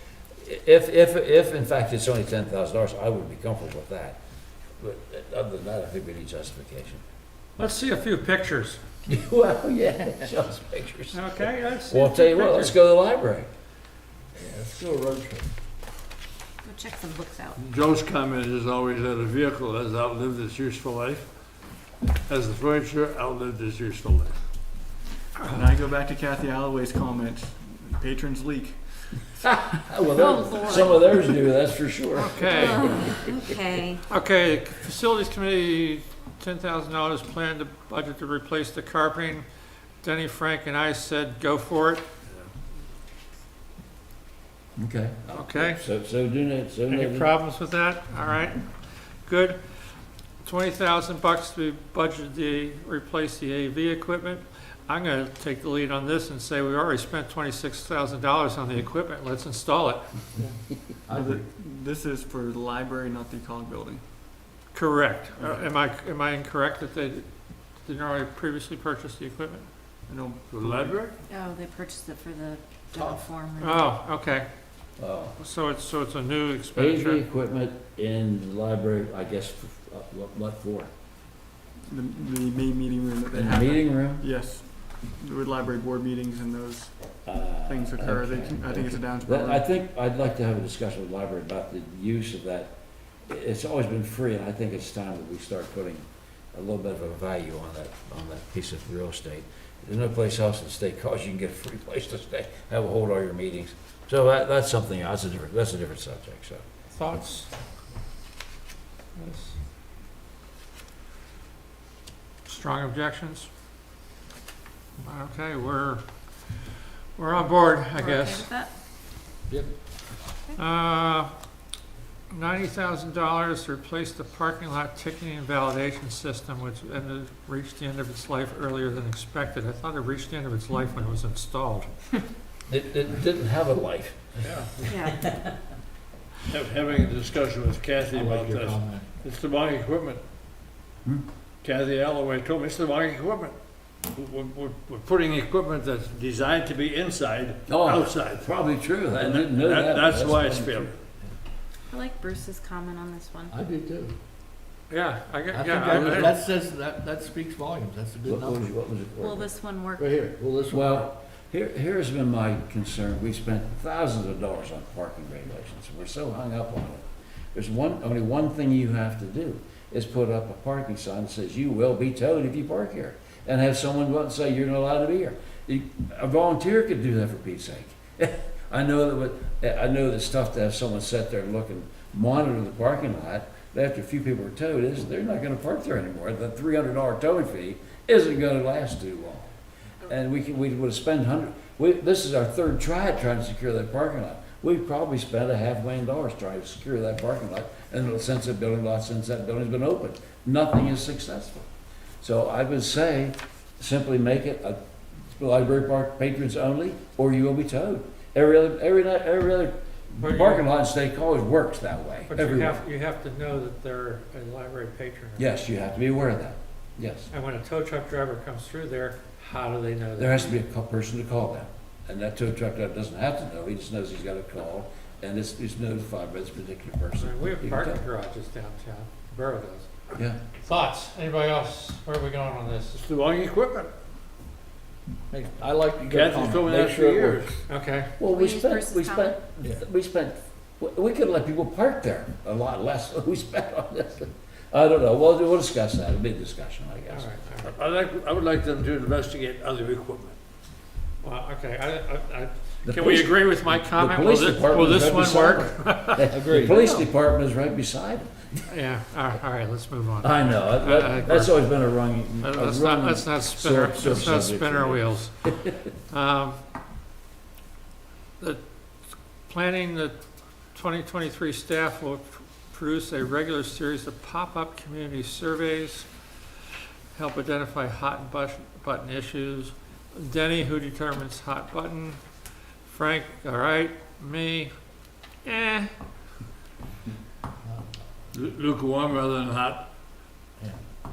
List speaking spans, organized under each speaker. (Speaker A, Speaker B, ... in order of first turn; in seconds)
Speaker A: 0.4-4.2, 4.8-7.0, 9.1-13.5, 29.4-33.3, 44.8-47.3, 75.0-75.4, 76.7-80.9, 83.3-84.3, 87.2-92.7, 93.3-106.6, 132.7-134.4, 147.7-150.9, 158.2-159.4, 160.7-189.5, 190.0-201.7, 202.2-212.8, 215.4-217.3, 220.2-228.0, 230.1-230.4, 238.2-247.3, 252.8-258.6, 260.2-265.7
Speaker B: 7.6-8.8, 11.1-12.8, 25.4-25.7, 32.1-32.9, 34.1-39.4, 40.0-42.0, 45.3-45.8, 46.9-49.6, 50.4-60.0, 64.7-67.3, 67.8-69.7, 73.6-74.5, 75.4-77.2, 106.9-107.5, 109.2-109.5, 112.4-113.5, 115.0-116.6, 117.1-118.5, 120.5-121.3, 122.3-131.9, 154.9-156.3, 210.2-210.7, 212.3-215.5, 217.3-220.6, 227.1-229.9, 230.6-233.0, 237.7-238.1, 247.1-247.7, 251.2-256.4, 258.7-261.7, 262.4-266.6, 269.5-270.1, 270.7-276.1, 277.1-282.2, 282.8-284.7, 285.4-285.9
Speaker C: 14.4-15.5, 61.1-61.4, 138.1-139.1, 153.5-154.2, 155.5-158.7, 160.0-160.9, 235.3-237.6, 256.3-257.0
Speaker D: 16.6-17.6, 30.1-31.1, 32.5-34.0, 71.3-73.9, 117.9-118.7, 134.8-135.2, 151.9-153.6, 159.2-160.2, 238.2-239.3
Speaker E: 17.6-21.2, 22.3-24.4, 70.5-71.1, 134.4-134.7, 136.5-140.2, 141.6-143.5, 144.1-148.5, 149.1-151.1, 232.9-233.9, 236.1-237.6, 247.6-250.4, 288.3-289.8
Speaker F: 25.5-29.3, 61.1-64.0, 65.4-65.7, 70.1-71.0, 81.9-86.9, 87.6-89.7